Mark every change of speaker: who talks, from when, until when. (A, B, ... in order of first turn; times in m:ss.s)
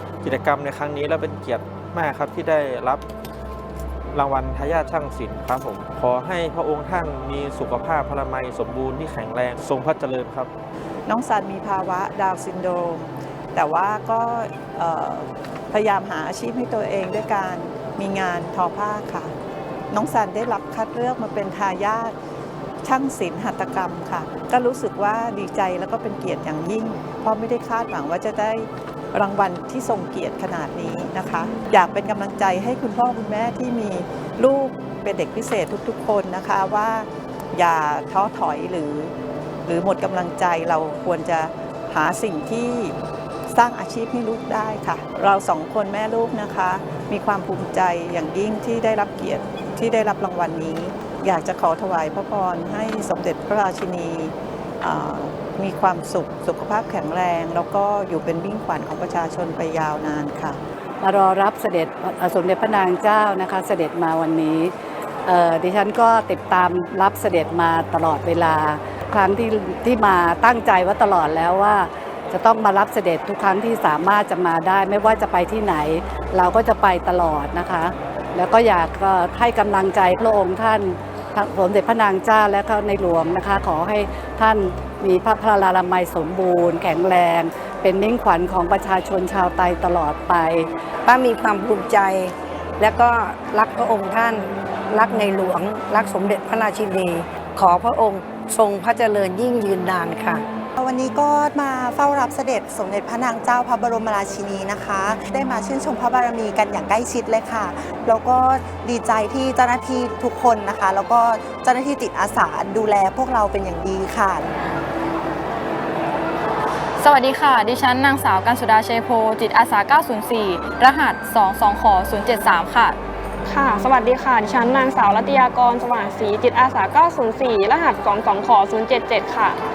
0:00.2-0:03.0 A
0:04.1-0:10.5 A
0:11.1-0:19.3 B
0:19.9-0:22.2 B
0:22.8-0:39.1 B
0:39.7-0:43.0 B
0:43.5-1:00.6 B
1:01.0-1:04.7 C
1:05.3-1:30.7 C
1:31.1-1:40.4 D
1:40.8-1:54.5 E
1:57.0-2:03.0 F
2:03.5-2:09.6 G